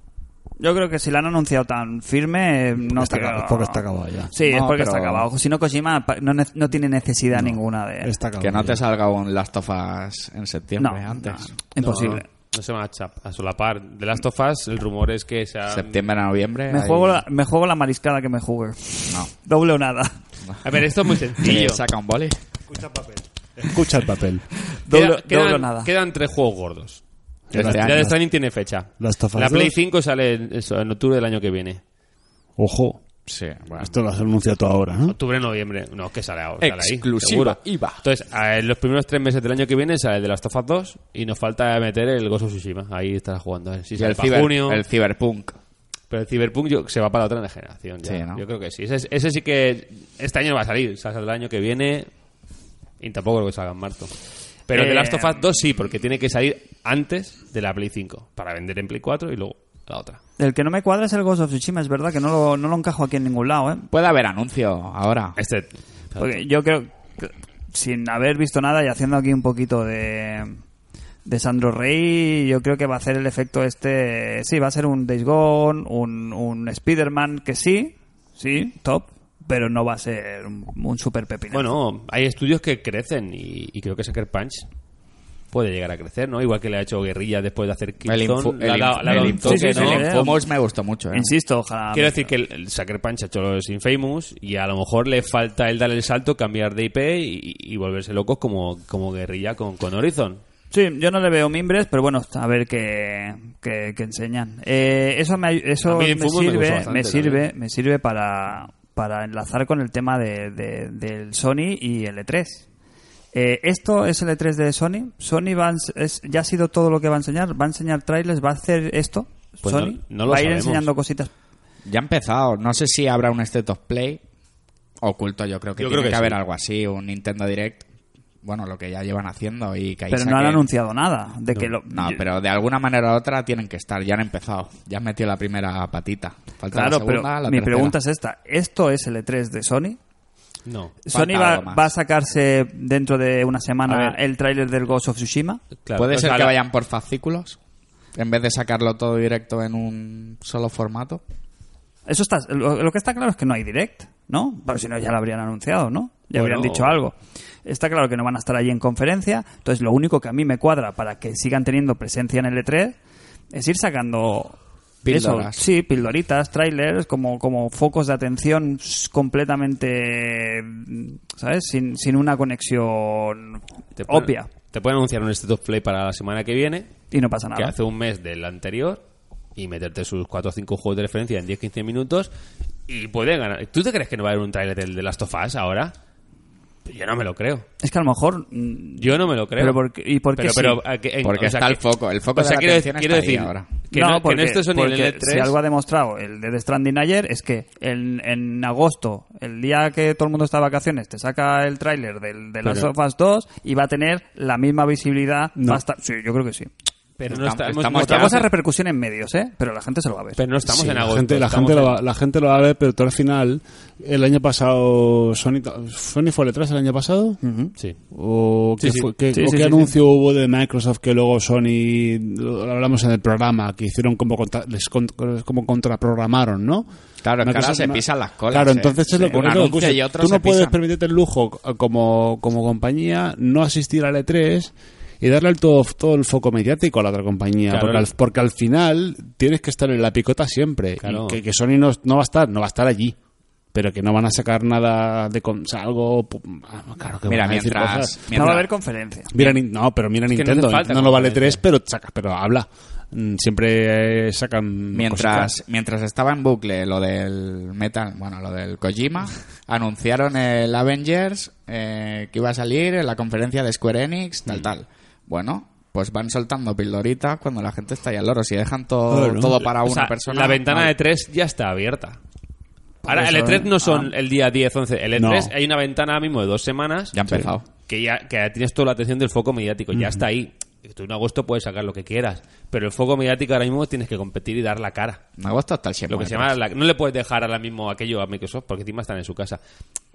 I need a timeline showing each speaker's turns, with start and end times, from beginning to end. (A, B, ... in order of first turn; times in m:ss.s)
0:00.6-0:08.1 A
0:02.9-0:04.3 B
0:04.4-0:05.2 C
0:08.0-0:08.8 B
0:08.4-0:11.5 C
0:10.8-0:12.2 A
0:11.8-0:16.0 D
0:15.7-0:17.2 C
0:16.7-0:20.2 A
0:20.6-0:21.8 D
0:21.4-0:22.4 C
0:22.7-0:24.4 B
0:24.7-0:25.9 A
0:24.9-0:27.0 D
0:27.5-0:28.1 B
0:27.5-0:31.8 D
0:27.5-0:28.0 C
0:29.0-0:29.7 B
0:32.6-0:33.0 B
0:33.3-0:33.9 C
0:33.7-0:35.2 B
0:35.1-0:44.8 D
0:36.6-0:38.0 C
0:44.0-0:45.6 C
0:46.1-0:52.1 D
0:48.0-0:48.4 C
0:53.0-0:54.1 D
0:54.7-1:00.2 D
0:54.7-0:55.4 A
1:00.4-1:03.9 A
1:03.9-1:05.4 C
1:05.4-1:06.4 D
1:06.2-1:10.6 A
1:11.2-1:21.7 A
1:21.5-1:24.7 D
1:25.5-1:30.2 D
1:28.0-1:31.3 C
1:29.0-1:30.5 A
1:31.1-1:32.3 A
1:31.9-1:40.4 D
1:40.7-1:52.6 A
1:45.8-1:47.4 D
1:53.3-2:01.3 A
1:59.6-2:00.9 D
2:01.8-2:04.2 C
2:05.0-2:07.8 C
2:05.8-2:06.4 D
2:08.4-2:10.6 C
2:10.1-2:12.2 A
2:11.9-2:18.0 C
2:16.7-2:20.0 A
2:20.6-2:21.0 D
2:21.0-2:25.6 A
2:21.1-2:21.9 C
2:23.9-2:24.2 D
2:25.8-2:26.6 D
2:26.0-2:27.6 C
2:28.1-2:31.2 C
2:32.1-2:43.0 A
2:36.3-2:37.0 D
2:43.5-2:54.5 A
2:45.0-2:45.6 C
2:54.0-2:56.9 D
2:57.1-2:57.7 A
2:57.5-2:59.0 D
2:59.6-3:02.3 D
3:02.9-3:05.9 D
3:06.8-3:07.6 D
3:07.8-3:10.8 A
3:09.0-3:09.8 D
3:10.3-3:11.8 D
3:11.2-3:13.7 C
3:12.3-3:15.6 D
3:13.9-3:26.7 A
3:22.6-3:22.9 D
3:27.2-3:28.5 D
3:27.3-3:28.4 C
3:27.9-3:30.4 A
3:30.4-3:32.0 D
3:30.6-3:37.4 B
3:37.4-3:37.7 A
3:38.1-3:46.9 B
3:38.8-3:39.1 D
3:39.3-3:39.9 A
3:47.2-3:50.8 C
3:47.4-4:03.2 B
3:57.7-3:58.0 D
4:01.0-4:01.4 D
4:03.7-4:08.6 B
4:07.3-4:08.6 C
4:08.3-4:09.3 A
4:09.3-4:15.5 B
4:10.3-4:11.6 D
4:14.9-4:30.9 C
4:29.1-4:29.6 B
4:29.6-4:32.2 D
4:33.0-4:34.1 A
4:33.1-4:37.2 D
4:35.2-4:35.5 B
4:37.1-4:37.6 C
4:37.9-4:45.2 D
4:39.9-4:40.2 B
4:45.4-4:46.5 C
4:46.1-4:49.6 D